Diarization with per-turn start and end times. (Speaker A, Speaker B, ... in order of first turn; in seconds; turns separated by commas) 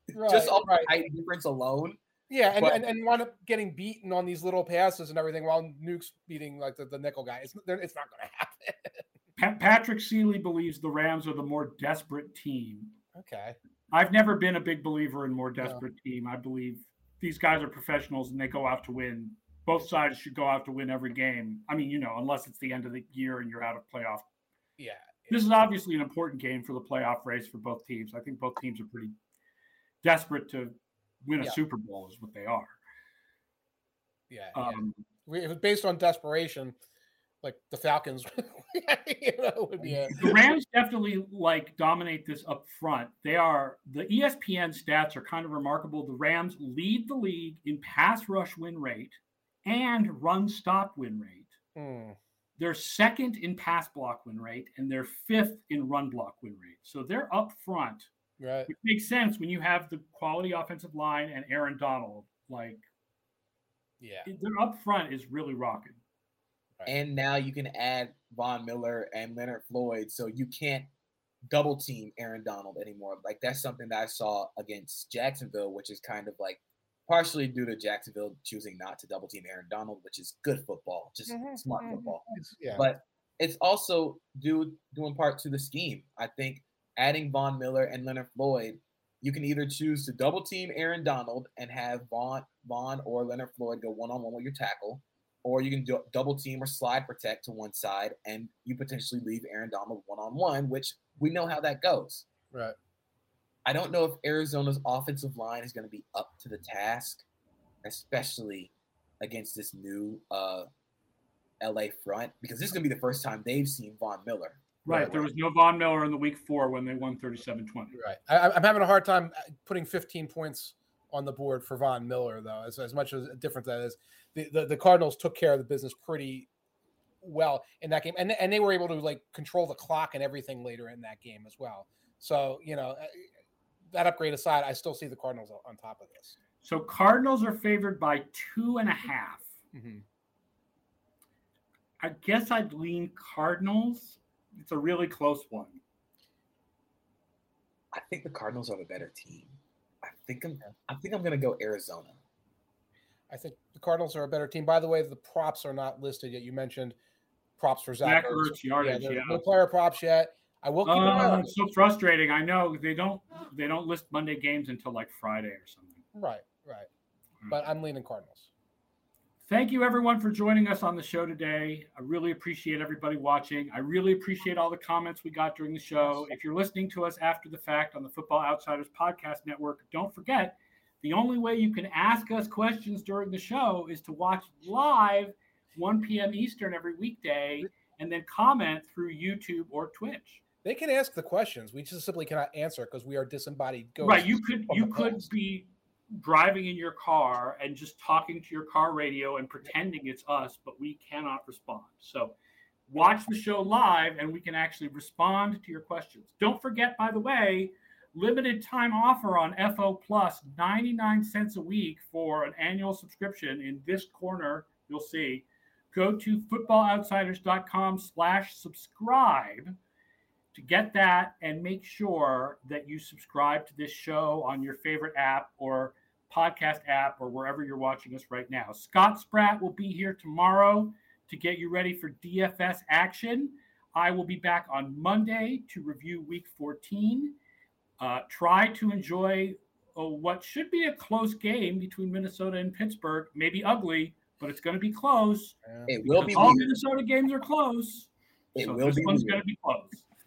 Speaker A: 0.1-0.9, Speaker B: 0.2-2.0, Speaker A: 2.3-9.1, Speaker C: 9.4-13.0, Speaker A: 13.1-13.6, Speaker C: 13.9-24.2, Speaker A: 24.8-25.4, Speaker C: 25.3-29.1, Speaker C: 30.0-32.8, Speaker A: 34.3-36.8, Speaker C: 34.5-35.0, Speaker A: 37.4-40.1, Speaker B: 39.9-40.4, Speaker C: 40.1-51.5, Speaker A: 51.7-52.2, Speaker C: 52.6-58.1, Speaker A: 58.4-58.7, Speaker C: 58.7-62.8, Speaker A: 64.0-64.3, Speaker C: 64.2-66.0, Speaker B: 66.8-70.9, Speaker B: 71.5-102.2, Speaker A: 81.3-82.9, Speaker B: 103.6-107.2, Speaker B: 107.8-110.7, Speaker B: 111.6-114.7, Speaker C: 114.8-118.0, Speaker A: 114.9-115.2, Speaker A: 117.9-126.5, Speaker A: 127.2-133.3, Speaker A: 133.9-136.4, Speaker C: 136.6-139.5, Speaker A: 139.7-140.0, Speaker C: 142.0-145.8, Speaker B: 147.9-152.2, Speaker A: 153.3-156.9, Speaker A: 157.6-161.5, Speaker C: 158.0-159.4, Speaker C: 160.8-166.0, Speaker A: 166.1-166.9, Speaker A: 167.5-168.5, Speaker C: 169.4-190.4, Speaker A: 190.6-195.2, Speaker C: 194.0-202.3, Speaker C: 202.9-219.7, Speaker C: 220.5-237.3, Speaker C: 238.0-245.6, Speaker A: 245.6-246.5, Speaker B: 245.9-246.7, Speaker C: 246.2-250.0, Speaker B: 248.5-249.4